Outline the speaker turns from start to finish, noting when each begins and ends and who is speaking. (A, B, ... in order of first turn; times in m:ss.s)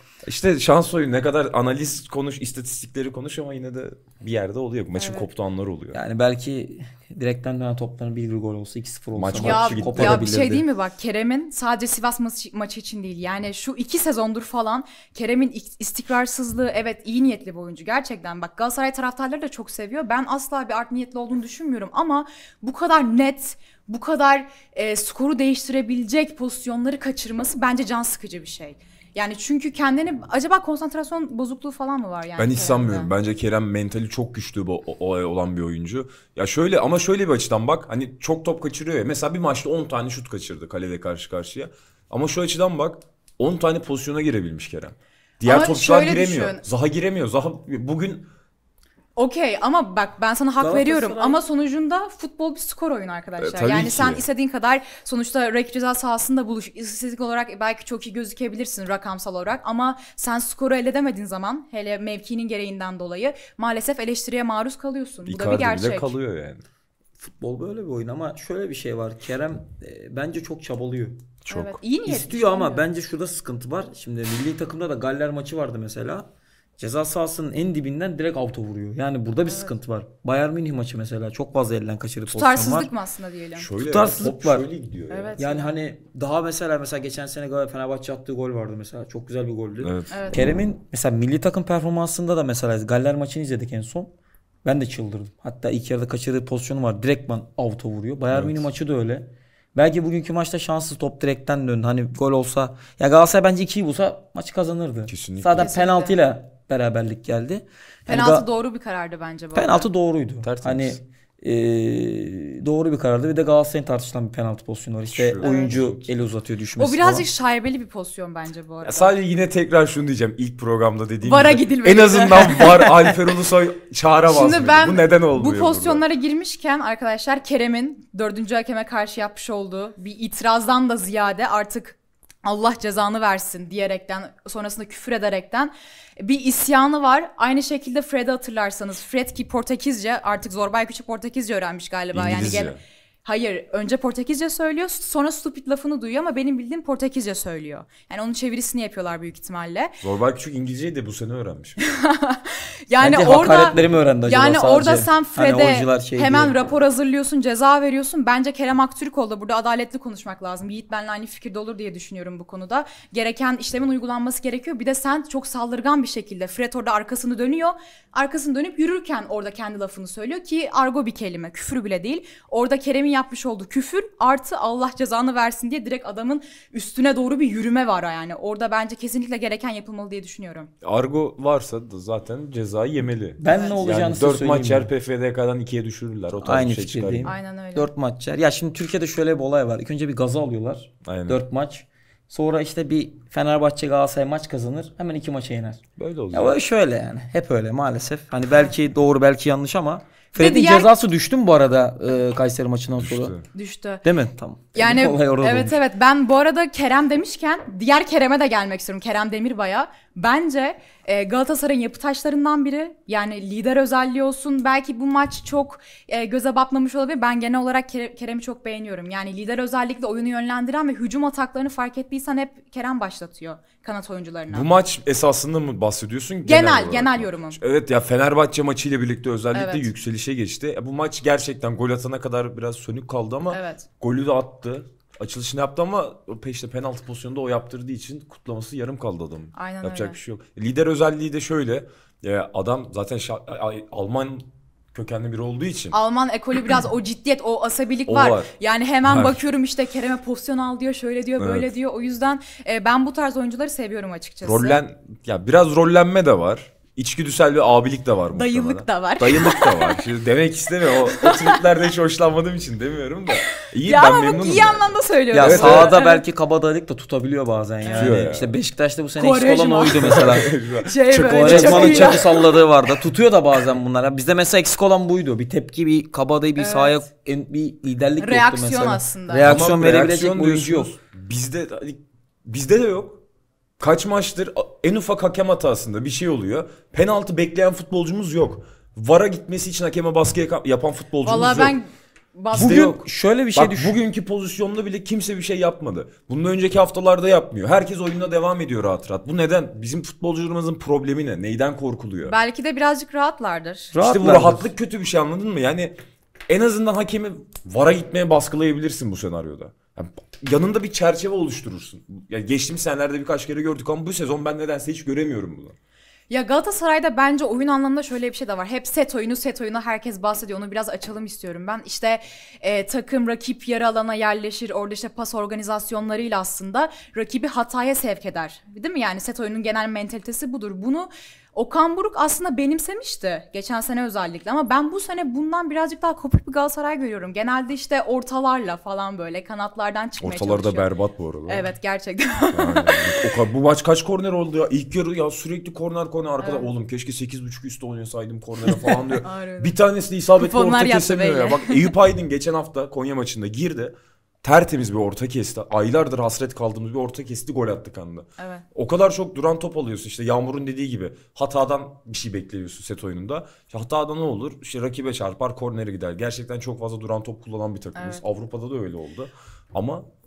0:00.2-0:06.0 A
0:05.0-0:05.3 B
0:05.9-0:10.6 C
0:09.2-0:10.4 A
0:09.4-0:33.1 B
0:32.4-0:48.3 A
0:45.4-0:46.6 B
0:49.2-1:06.2 B
0:50.6-0:51.4 C
0:53.4-0:54.2 A
1:05.3-1:06.6 A
1:07.2-1:11.4 C
1:11.5-1:11.8 A
1:11.5-1:12.8 B
1:12.0-1:22.9 C
1:19.5-1:19.7 B
1:22.3-1:23.7 B
1:23.6-1:25.4 A
1:23.8-1:24.7 C
1:25.1-1:25.7 B
1:25.4-1:34.1 C
1:29.8-1:30.2 A
1:30.1-1:30.4 B
1:34.6-1:48.5 C
1:38.3-1:38.7 A
1:45.1-1:45.7 A
1:45.6-1:46.2 B
1:48.1-1:49.9 B
1:49.5-1:57.3 C
1:50.4-1:51.0 A
1:55.1-1:56.1 A
1:55.4-1:55.8 B
1:56.8-1:59.1 B
1:58.8-2:06.0 A
2:01.2-2:02.9 B
2:04.3-2:30.0 B
2:22.1-2:22.8 A
2:30.0-2:31.8 A
2:31.8-3:00.7 B
2:33.0-2:36.6 C
2:33.7-2:34.0 A
3:00.8-3:07.3 A
3:03.4-3:04.9 C
3:03.5-3:03.8 B
3:06.4-3:23.4 C
3:07.2-3:07.9 B
3:11.0-3:11.4 A
3:16.0-3:16.6 A
3:20.4-3:20.9 B
3:23.0-3:23.4 A
3:23.5-3:24.0 B
3:24.0-3:25.8 C
3:24.8-3:44.7 B
3:44.5-4:06.0 A
3:46.4-3:47.6 B
3:49.5-3:49.9 B
3:53.5-3:53.9 B
3:59.6-4:00.2 B
4:05.9-4:14.8 B
4:08.1-4:08.5 A
4:09.0-4:09.4 A
4:11.4-4:11.7 A
4:14.4-4:26.0 A
4:18.3-4:20.0 B
4:21.1-4:21.6 B
4:23.6-4:26.2 B
4:25.3-4:30.5 C
4:27.8-4:28.2 B
4:27.9-4:28.5 A
4:29.2-4:30.3 B
4:30.0-4:32.3 A
4:30.8-4:32.6 B
4:31.1-4:41.0 C
4:36.6-4:37.0 B
4:38.2-4:39.5 B
4:39.4-4:43.2 A
4:43.8-4:51.8 A
4:51.2-4:53.0 B
4:52.5-5:02.4 A
4:52.5-4:54.0 C
5:02.3-5:03.9 B
5:03.9-5:04.7 C
5:04.0-5:05.9 A
5:06.5-5:15.8 A
5:16.3-5:40.9 B
5:40.2-5:41.7 A
5:41.5-5:43.2 B
5:42.5-6:10.0 A
5:46.4-5:46.7 B
5:48.8-5:49.8 B
5:50.4-5:51.9 B
5:58.4-5:58.6 B
6:08.0-6:08.2 B